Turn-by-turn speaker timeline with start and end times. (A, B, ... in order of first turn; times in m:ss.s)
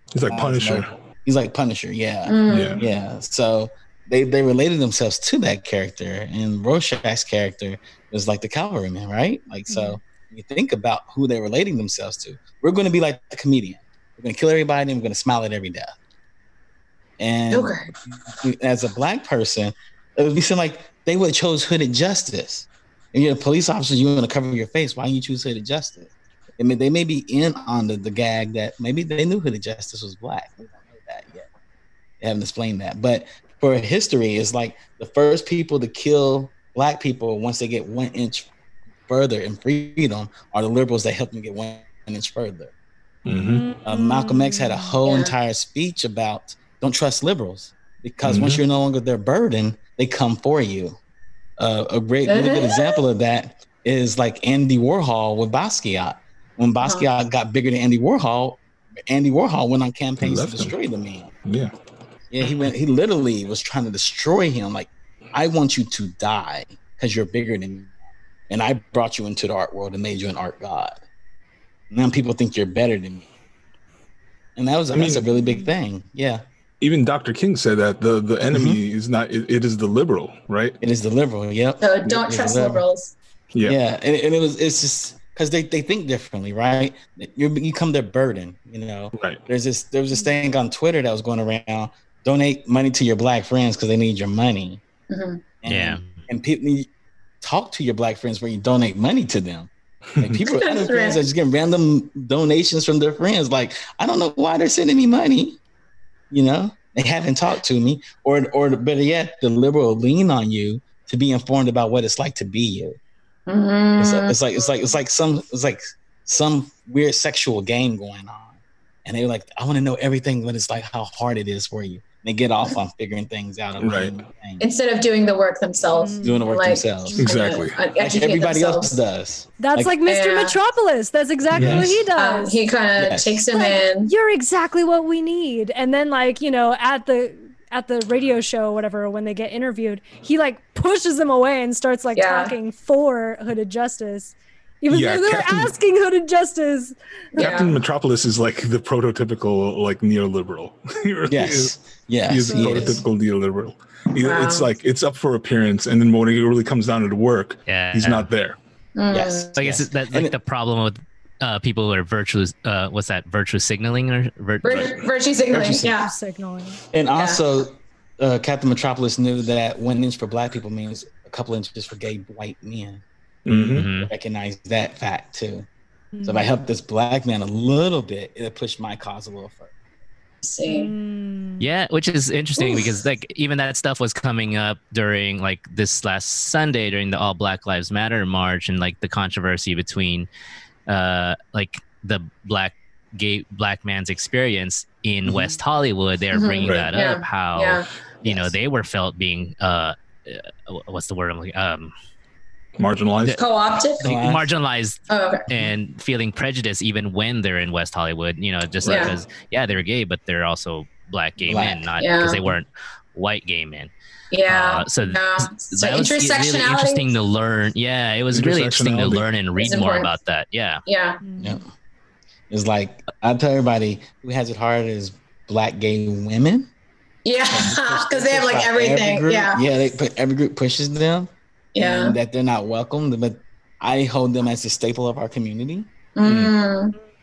0:00.1-0:00.9 A
0:00.2-0:16.0 B
0:02.3-0:02.9 C
0:02.5-0:02.8 A
0:09.7-0:10.0 D
0:17.2-0:31.5 B
0:17.5-0:17.9 C
0:32.2-0:38.5 B
0:39.1-0:42.7 B
0:43.3-0:43.7 A
0:43.5-0:45.0 D
0:43.8-0:51.0 B
0:45.0-0:45.4 C
0:48.2-0:48.6 A
0:51.6-1:01.3 B
0:52.3-0:53.0 C
0:56.8-0:57.1 C
1:00.2-1:00.8 A
1:01.4-1:01.7 A
1:02.3-1:07.9 B
1:08.5-1:11.0 B
1:11.9-1:13.3 B
1:14.6-1:16.4 B
1:14.9-1:15.3 A
1:15.3-1:15.7 D
1:16.8-1:20.8 A
1:18.5-1:18.8 B
1:20.8-1:22.8 B
1:21.8-1:23.2 C
1:23.5-1:23.8 A
1:23.6-1:34.8 B
1:29.2-1:29.4 A
1:35.1-1:35.4 C
1:35.6-1:36.9 B
1:35.7-1:36.2 E
1:37.4-1:45.6 B
1:40.4-1:41.2 C
1:46.3-1:53.0 B
1:53.5-1:54.4 C
1:54.0-2:04.6 B
2:03.8-2:04.2 A
2:04.6-2:09.0 C
2:05.9-2:06.5 D
2:06.2-2:07.3 B
2:07.2-2:07.8 A
2:08.0-2:10.0 B
2:09.6-2:12.6 D
2:10.1-2:10.6 C
2:11.5-2:12.0 A
2:11.5-2:12.1 B
2:12.2-2:14.1 C
2:13.0-2:13.4 B
2:13.5-2:27.0 D
2:22.2-2:22.5 C
2:24.9-2:25.7 A
2:27.4-2:27.8 C
2:27.4-2:31.8 A
2:31.3-2:33.0 B
2:32.3-2:38.6 A
2:32.5-2:33.0 D
2:34.2-2:34.7 C
2:37.7-2:38.3 E
2:39.0-2:39.6 C
2:39.1-2:40.4 B
2:39.6-2:45.0 E
2:44.6-2:46.1 C
2:44.7-2:45.0 A
2:45.5-2:46.0 B
2:45.9-2:46.8 D
2:46.9-2:53.0 B
2:47.2-2:47.4 C
2:53.5-2:53.9 A
2:53.6-2:55.7 B
2:53.7-2:54.1 E
2:56.1-2:56.6 D
2:56.2-2:59.7 B
3:00.4-3:00.9 C
3:00.6-3:01.7 D
3:01.6-3:10.3 E
3:02.6-3:02.8 C
3:10.9-3:21.9 E
3:15.3-3:15.6 B
3:16.3-3:17.9 C
3:16.6-3:16.9 A
3:18.2-3:18.6 B
3:22.8-3:23.4 A
3:23.4-3:24.0 C
3:24.0-3:33.9 E
3:24.0-3:24.5 B
3:25.1-3:25.5 C
3:28.8-3:29.2 A
3:28.8-3:29.2 C
3:31.4-3:31.9 B
3:32.0-3:32.4 C
3:34.3-3:37.1 C
3:34.5-3:40.8 E
3:38.3-3:39.3 A
3:39.6-3:40.1 C
3:40.9-3:41.2 C
3:41.2-3:41.6 D
3:41.4-3:41.7 B
3:42.5-3:46.7 B
3:47.2-3:49.7 C
3:47.5-3:55.9 B
3:51.8-3:52.2 C
3:56.2-3:57.0 C
3:56.2-3:56.5 A